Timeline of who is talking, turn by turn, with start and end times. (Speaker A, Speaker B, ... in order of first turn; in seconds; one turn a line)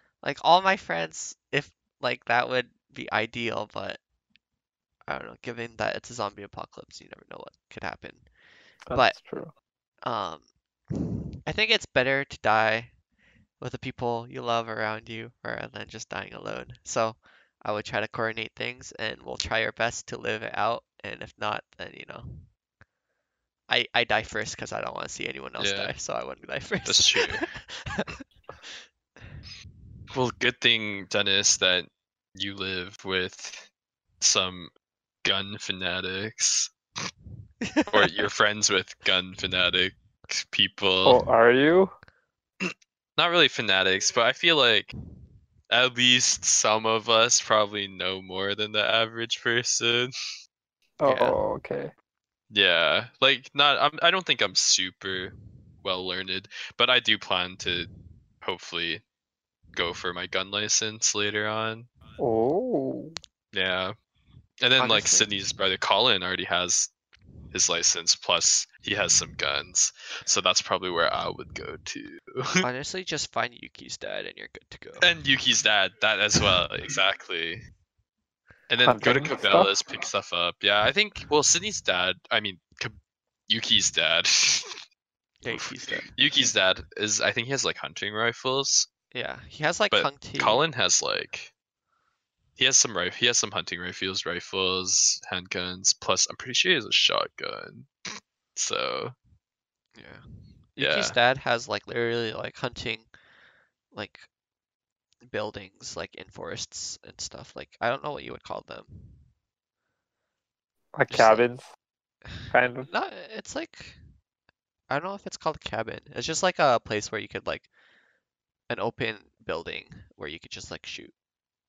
Speaker A: 0.2-4.0
Speaker A: 5.1-8.3
Speaker B: 8.9-9.5
Speaker A: 8.9-9.2
Speaker A: 10.0-12.9
Speaker A: 13.6-22.5
Speaker A: 23.7-28.1
Speaker C: 25.6-25.9
Speaker C: 26.8-27.5
Speaker C: 30.1-33.7
Speaker C: 34.2-34.7
Speaker C: 35.2-36.7
Speaker A: 37.6-38.3
Speaker C: 37.9-41.2
Speaker B: 41.0-41.9
Speaker C: 42.6-44.9
Speaker C: 45.7-50.1
Speaker B: 51.0-51.9
Speaker A: 51.0-51.4
Speaker C: 52.5-57.9
Speaker C: 58.4-59.0
Speaker C: 59.7-61.9
Speaker B: 62.2-63.1
Speaker C: 63.5-63.9
Speaker C: 64.6-66.9
Speaker A: 64.8-65.3
Speaker C: 67.5-72.6
Speaker A: 72.6-75.1
Speaker C: 75.0-77.6
Speaker C: 78.7-83.0
Speaker B: 78.8-79.7
Speaker C: 83.5-84.8
Speaker A: 85.4-86.1
Speaker C: 85.5-88.9
Speaker A: 89.1-90.6
Speaker C: 89.9-91.5
Speaker C: 92.6-97.9
Speaker C: 98.5-99.1
Speaker A: 99.9-100.2
Speaker A: 100.7-103.1
Speaker C: 100.8-101.2
Speaker A: 103.9-104.3
Speaker A: 105.2-109.2
Speaker B: 110.9-111.7
Speaker A: 111.1-111.5
Speaker A: 112.2-114.0
Speaker B: 112.5-112.9
Speaker A: 114.9-117.7
Speaker A: 118.7-121.1